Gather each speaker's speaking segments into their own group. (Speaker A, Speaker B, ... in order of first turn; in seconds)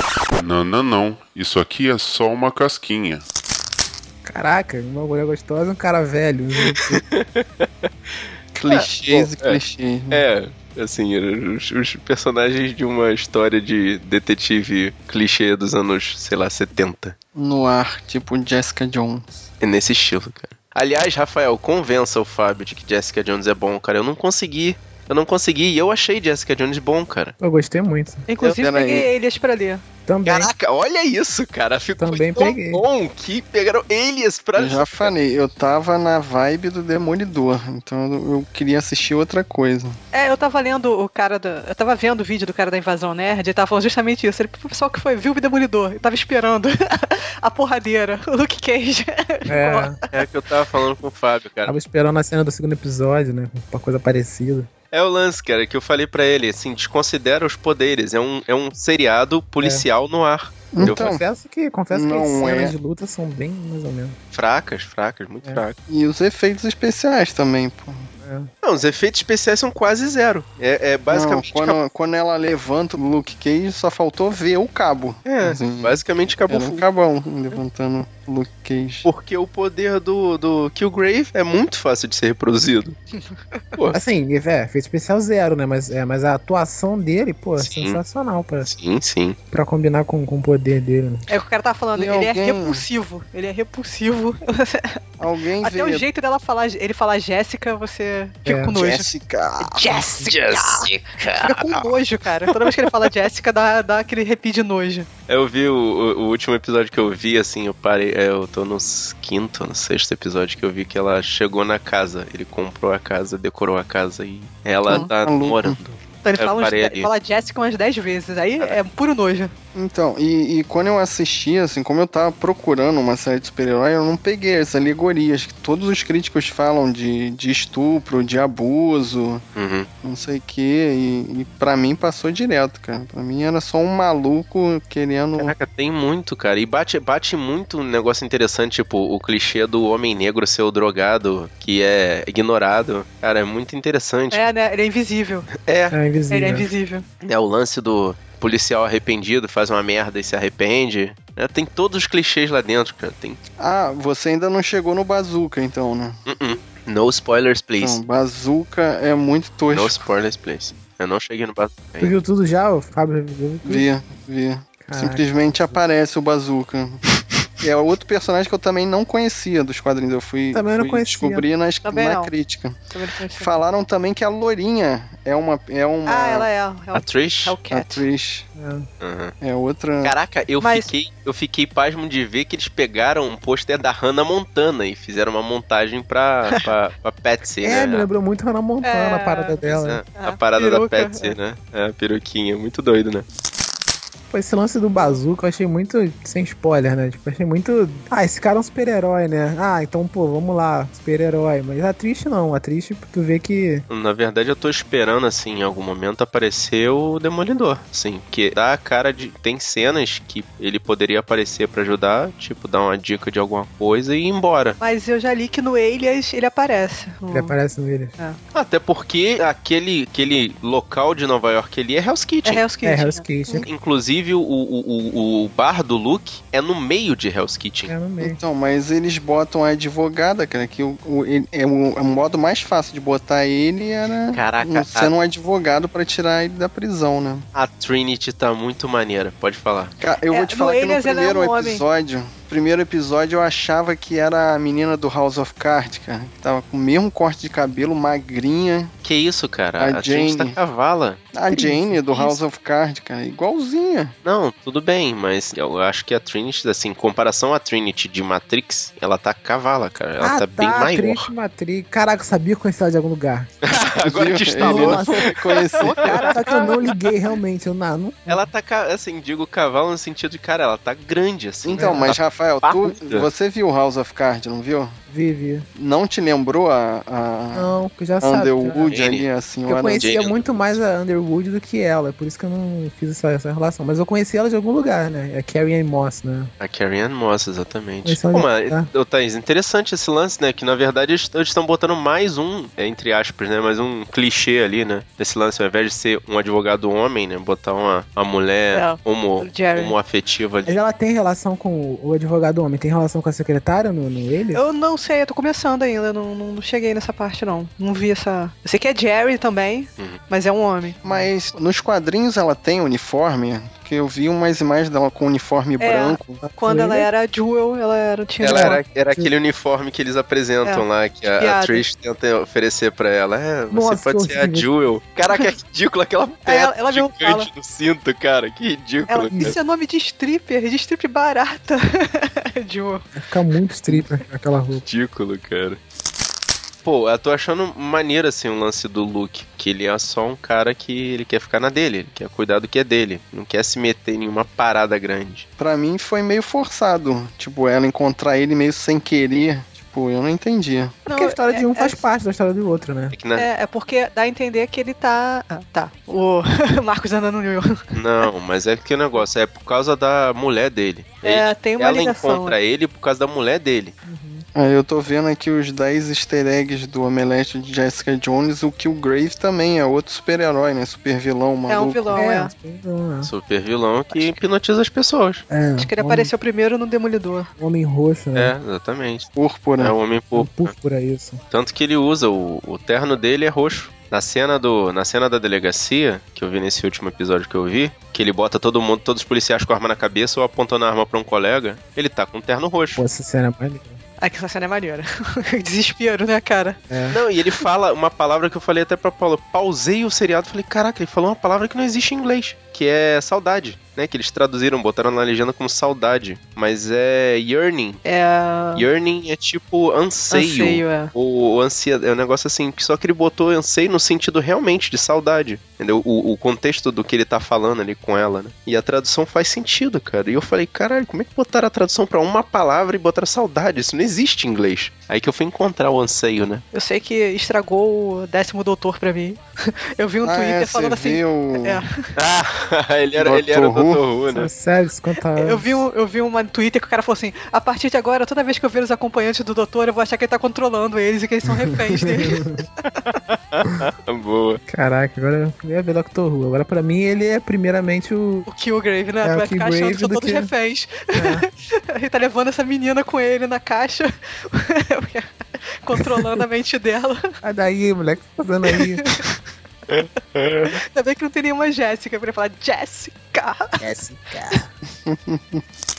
Speaker A: 0.3-3.2
Speaker B: 4.2-7.0, 27.4-28.2, 30.1-30.5, 32.0-32.8, 49.5-50.0, 51.6-54.7, 59.6-59.9, 60.8-64.2, 68.2-68.5, 83.9-88.7, 89.5-91.3, 98.5-98.8, 145.9-146.7, 162.0-163.9, 164.8-165.8, 170.5-171.4, 178.6-178.8, 187.6-190.0, 194.3-203.8, 217.3-218.2, 222.8-223.7, 227.9-228.4, 251.5-252.4, 260.2-263.5, 264.6-268.5, 271.8-272.2, 275.1-275.7, 277.5-278.9, 279.7-286.5, 288.0-288.9, 300.6-304.6, 316.4-317.1, 318.4-319.3, 323.7-324.7, 333.1-334.8, 351.1-353.1, 364.0-364.4, 372.1-373.3, 375.5-376.3, 377.6-378.5, 380.3-381.4, 392.9-394.0, 396.9-397.2, 434.3-435.8, 441.9-442.6, 444.7-448.5, 449.2-450.5, 451.1-451.4, 457.4-459.2, 463.8-464.7
Speaker C: 6.6-7.9, 8.7-17.1, 19.6-27.3, 30.2-35.1, 50.1-51.8, 54.9-61.1, 64.3-65.8, 68.6-71.8, 75.2-76.8, 79.0-83.0, 87.6-88.0, 88.6-89.4, 100.2-102.9, 105.3-117.1, 129.6-129.9, 135.4-144.4, 145.6-145.9, 147.2-153.4, 156.3-158.0, 159.7-162.2, 176.9-177.6, 179.0-179.3, 180.0-188.1, 189.6-193.2, 203.9-214.8, 218.5-222.6, 223.6-227.9, 234.3-235.1, 237.5-239.9, 249.0-251.2, 254.2-261.3, 263.7-266.9, 268.3-273.3, 278.8-279.3, 279.9-280.8, 286.6-300.7, 318.4-329.6, 334.7-335.8, 336.8-345.4, 353.1-353.5, 357.9-363.9, 373.2-375.4, 378.3-379.3, 379.8-380.7, 381.5-393.0, 397.1-408.0, 408.7-426.6, 432.1-434.5, 443.3-444.6, 459.9-460.7
Speaker D: 8.5-10.2, 17.3-19.5, 28.6-29.1, 34.5-40.0, 60.7-61.2, 61.9-62.7, 65.9-68.1, 71.1-79.1, 91.9-92.8, 95.2-96.0, 98.7-100.0, 114.8-115.8, 119.7-129.4, 130.0-135.5, 153.6-156.2, 157.8-159.9, 163.6-167.0, 167.6-172.8, 173.3-176.5, 177.7-178.5, 179.4-180.2, 228.2-237.4, 240.0-248.9, 249.8-250.6, 251.3-254.1, 264.0-266.3, 271.6-274.9, 275.7-280.1, 311.0-316.4, 345.6-351.0, 364.5-372.2, 379.3-379.9, 430.2-431.8, 433.2-434.1, 465.1-465.6
Speaker E: 28.3-29.8, 40.1-50.2, 91.3-95.0, 95.6-99.1, 99.6-105.1, 116.2-119.5, 144.3-145.5, 146.3-147.0, 171.8-172.3, 172.9-173.5, 176.1-178.1, 180.6-180.9, 188.8-189.6, 190.2-191.4, 214.8-217.5, 222.4-223.6, 240.3-241.8, 266.4-266.8, 298.7-299.9, 304.5-311.0, 315.8-318.8, 320.6-321.9, 326.4-327.5, 329.1-333.1, 351.1-352.0, 353.4-357.9, 361.2-362.6, 371.7-372.5, 374.1-374.4, 375.8-377.5, 394.2-396.8, 408.0-408.9, 410.3-411.1, 426.7-429.4, 430.0-432.1, 435.3-442.6, 448.5-455.3, 455.8-457.3, 460.9-463.8